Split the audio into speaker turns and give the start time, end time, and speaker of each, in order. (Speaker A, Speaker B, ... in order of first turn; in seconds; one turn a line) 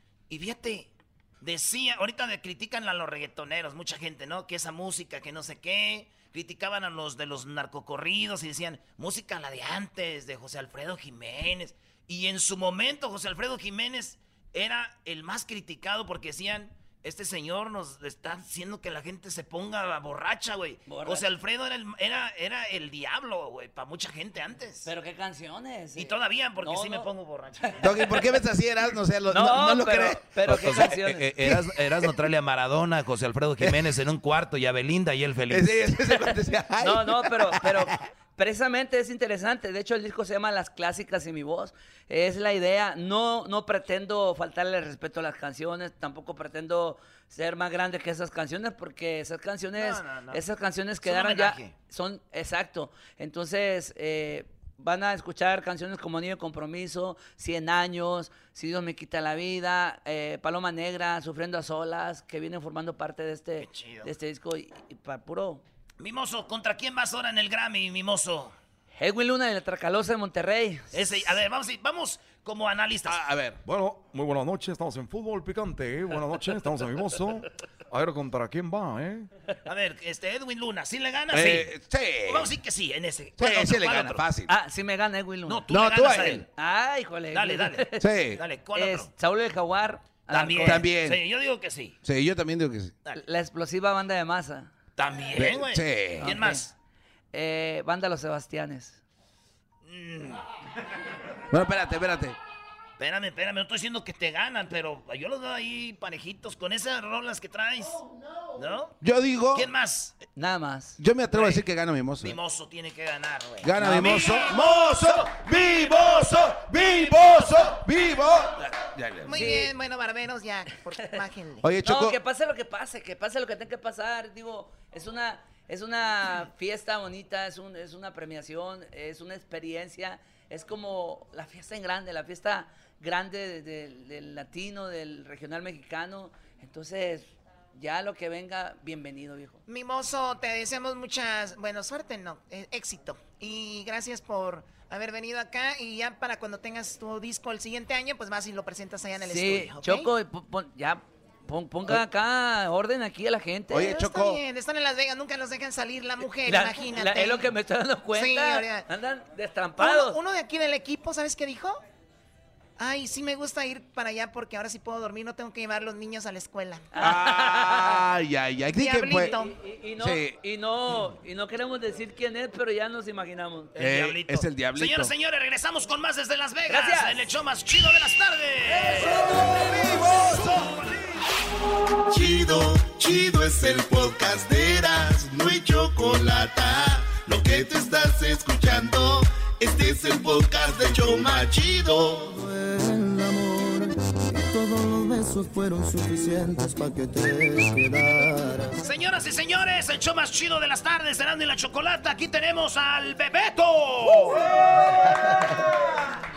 Speaker A: 0.3-24.9
Speaker B: 20.9-21.3
Speaker B: 24.9-27.8
Speaker A: 26.0-27.9
Speaker C: 27.8-32.2
Speaker B: 29.3-31.3
Speaker D: 31.3-35.7
Speaker C: 33.6-33.9
Speaker C: 35.5-37.9
Speaker B: 36.8-65.6
Speaker A: 49.8-50.4
Speaker A: 51.0-51.8
Speaker A: 63.6-64.1
Speaker A: 66.0-68.5
Speaker B: 69.0-71.0
Speaker A: 70.9-73.2
Speaker C: 73.1-73.6
Speaker E: 73.6-79.3
Speaker A: 79.7-81.8
Speaker C: 81.3-82.5
Speaker A: 82.3-84.2
Speaker C: 83.4-84.5
Speaker B: 84.5-85.7
Speaker A: 85.5-86.5
Speaker C: 85.7-86.5
Speaker B: 86.5-88.1
Speaker A: 87.3-87.8
Speaker C: 88.0-88.4
Speaker A: 88.4-89.1
Speaker B: 88.8-90.8
Speaker A: 90.3-92.0
Speaker C: 90.6-91.2
Speaker C: 92.0-93.0
Speaker B: 93.2-94.7
Speaker A: 95.0-96.7
Speaker C: 95.3-96.3
Speaker B: 96.2-96.7
Speaker B: 97.3-99.0
Speaker A: 99.9-100.4
Speaker C: 101.5-102.4
Speaker A: 103.0-108.0
Speaker A: 108.6-109.0
Speaker C: 109.0-109.7
Speaker A: 109.5-110.2
Speaker B: 110.4-111.0
Speaker C: 111.0-112.3
Speaker A: 111.3-111.7
Speaker A: 112.2-115.3
Speaker C: 113.6-119.4
Speaker A: 116.8-117.7
Speaker F: 119.2-121.7
Speaker B: 119.4-119.7
Speaker C: 121.6-122.2
Speaker B: 121.8-139.6
Speaker F: 139.7-150.1
Speaker B: 149.3-154.0
Speaker C: 153.7-154.4
Speaker F: 153.9-157.5
Speaker B: 156.4-160.2
Speaker F: 158.1-158.9
Speaker F: 159.8-161.8
Speaker F: 162.8-166.9
Speaker B: 166.9-168.0
Speaker C: 167.0-169.3
Speaker F: 168.8-169.5
Speaker B: 169.3-173.7
Speaker C: 170.0-170.4
Speaker A: 173.8-179.4
Speaker C: 173.8-175.1
Speaker B: 176.7-177.2
Speaker C: 178.9-180.7
Speaker A: 180.1-181.0
Speaker G: 182.1-192.3
Speaker H: 192.3-198.8
Speaker A: 198.8-204.5